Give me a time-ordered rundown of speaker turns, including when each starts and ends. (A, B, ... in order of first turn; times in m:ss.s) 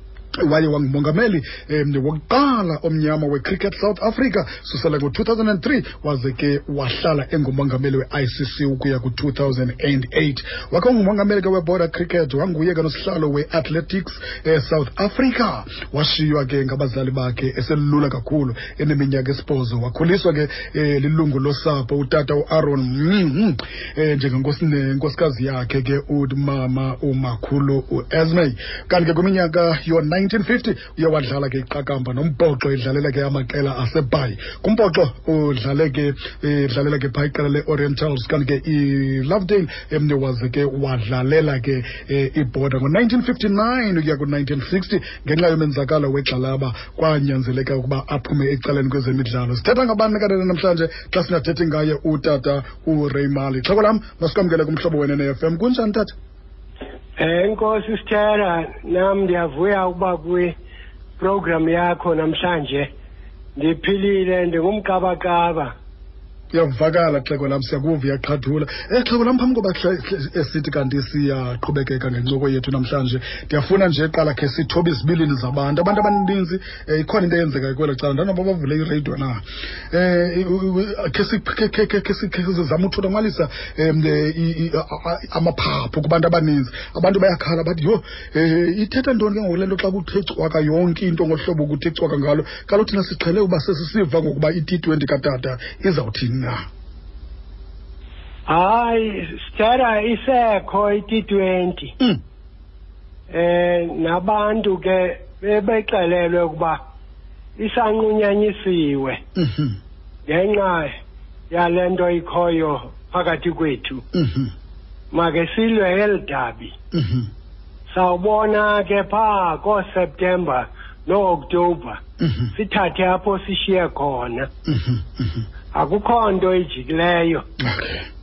0:00.4-0:56.2 A
0:57.2-1:00.5 B
1:01.2-1:02.9 B
1:03.6-1:05.7 B
1:06.5-1:36.6 A
1:38.5-1:42.0 B
1:43.3-1:46.8 B
1:47.6-1:49.2 B
1:49.4-1:49.8 A
1:50.3-1:51.0 B
1:51.5-1:54.0 B
1:54.1-1:54.5 A
1:55.1-1:56.8 B
1:56.9-1:57.3 A
1:57.9-2:02.0 B
2:02.2-2:02.5 A
2:02.5-2:04.5 B
2:04.7-2:05.4 A
2:05.7-2:07.5 B
2:07.6-2:08.1 A